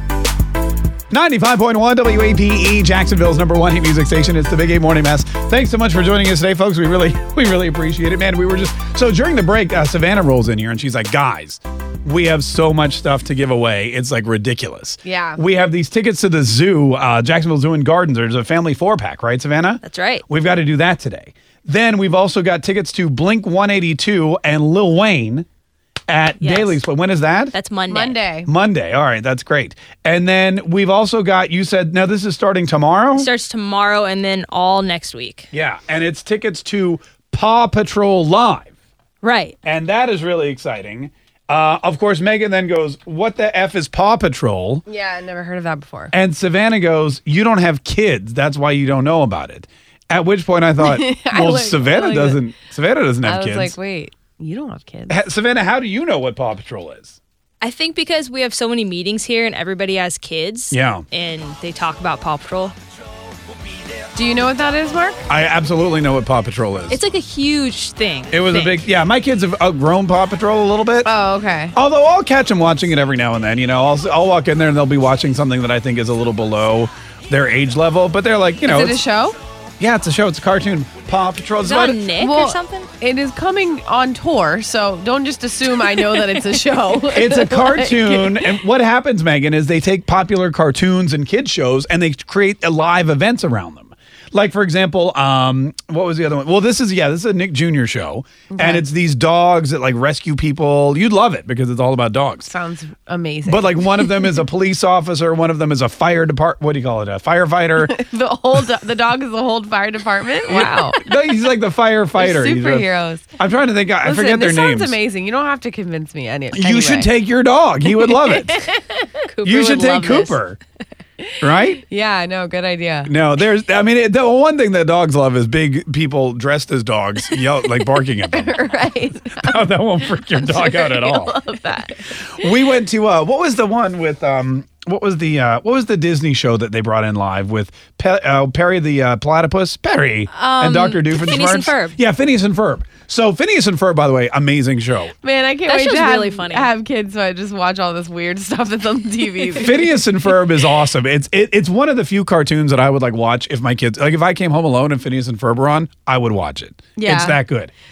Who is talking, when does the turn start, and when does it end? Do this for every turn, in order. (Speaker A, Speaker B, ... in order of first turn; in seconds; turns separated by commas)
Speaker A: 1.1-25.5, Speaker B: 15.0-15.4, Speaker C: 19.8-20.2, Speaker A: 26.1-27.6, Speaker C: 26.4-26.8, Speaker C: 27.5-28.2, Speaker B: 27.9-28.5, Speaker A: 28.5-33.3, Speaker C: 33.2-35.5, Speaker A: 35.5-38.7, Speaker C: 39.2-39.5, Speaker A: 39.6-44.8, Speaker B: 44.9-46.1, Speaker A: 46.1-53.7, Speaker B: 50.8-52.4, Speaker B: 53.2-55.2, Speaker A: 55.1-57.2, Speaker C: 57.6-62.8, Speaker A: 60.7-61.1, Speaker B: 64.1-65.2, Speaker A: 65.3-67.0, Speaker C: 66.9-68.9, Speaker A: 68.3-71.1, Speaker B: 71.0-71.8, Speaker A: 71.7-79.0, Speaker B: 78.6-79.4, Speaker A: 79.8-82.0, Speaker C: 81.6-82.9, Speaker B: 82.2-88.6, Speaker A: 87.1-102.5, Speaker B: 98.5-98.9, Speaker B: 102.5-104.3, Speaker A: 103.5-108.0, Speaker B: 107.8-111.1, Speaker A: 110.5-115.0, Speaker B: 112.2-113.3, Speaker B: 114.0-117.1, Speaker A: 116.5-118.6, Speaker B: 117.9-119.1, Speaker C: 119.3-120.4, Speaker A: 119.4-120.6, Speaker B: 121.2-123.1, Speaker A: 121.4-121.8, Speaker A: 123.1-128.7, Speaker B: 128.3-132.4, Speaker A: 129.3-131.4, Speaker A: 132.3-145.1, Speaker C: 140.3-142.0, Speaker B: 145.2-149.9, Speaker C: 145.7-146.7, Speaker A: 149.6-157.7, Speaker B: 157.0-157.4